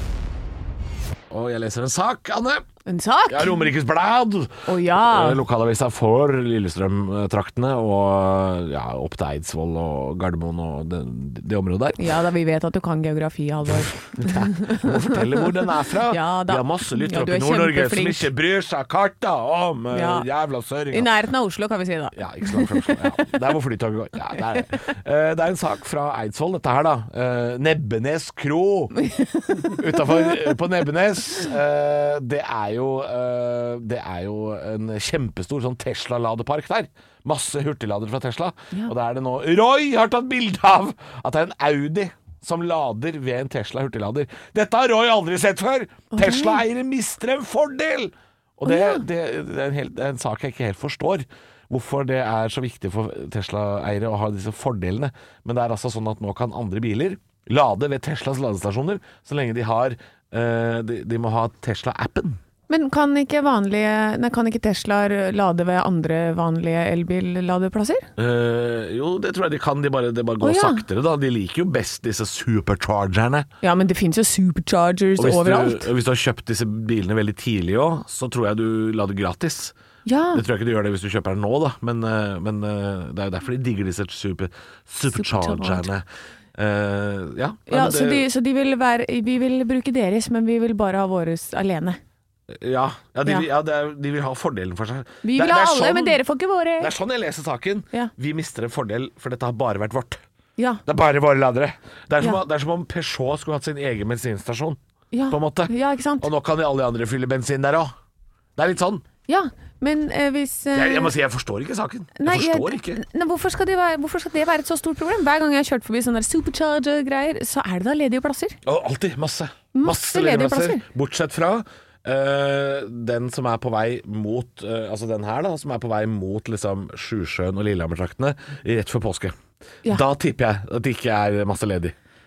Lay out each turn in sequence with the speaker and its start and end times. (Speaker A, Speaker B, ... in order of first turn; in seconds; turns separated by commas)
Speaker A: 1.3-2.6, Speaker B: 2.9-3.7, Speaker A: 3.3-12.1, Speaker B: 4.7-5.4, Speaker B: 12.0-18.3, Speaker A: 14.2-21.1, Speaker B: 19.9-20.3, Speaker B: 20.9-23.3, Speaker A: 22.1-28.9, Speaker B: 29.0-30.4, Speaker A: 29.7-62.4, Speaker B: 46.1-46.6, Speaker B: 48.7-49.0, Speaker B: 62.7-68.1, Speaker A: 68.2-73.5, Speaker B: 70.4-70.8, Speaker B: 73.6-75.9, Speaker A: 75.2-79.8, Speaker B: 80.1-80.4, Speaker A: 80.3-88.3, Speaker B: 85.2-85.9, Speaker B: 87.7-92.0, Speaker A: 92.5-96.2, Speaker B: 95.2-96.9, Speaker A: 96.8-100.2, Speaker A: 100.9-107.9, Speaker B: 105.1-106.3, Speaker A: 108.6-109.1, Speaker B: 109.3-111.1, Speaker A: 110.7-113.0, Speaker B: 112.2-118.6, Speaker A: 118.7-131.9, Speaker B: 119.7-120.8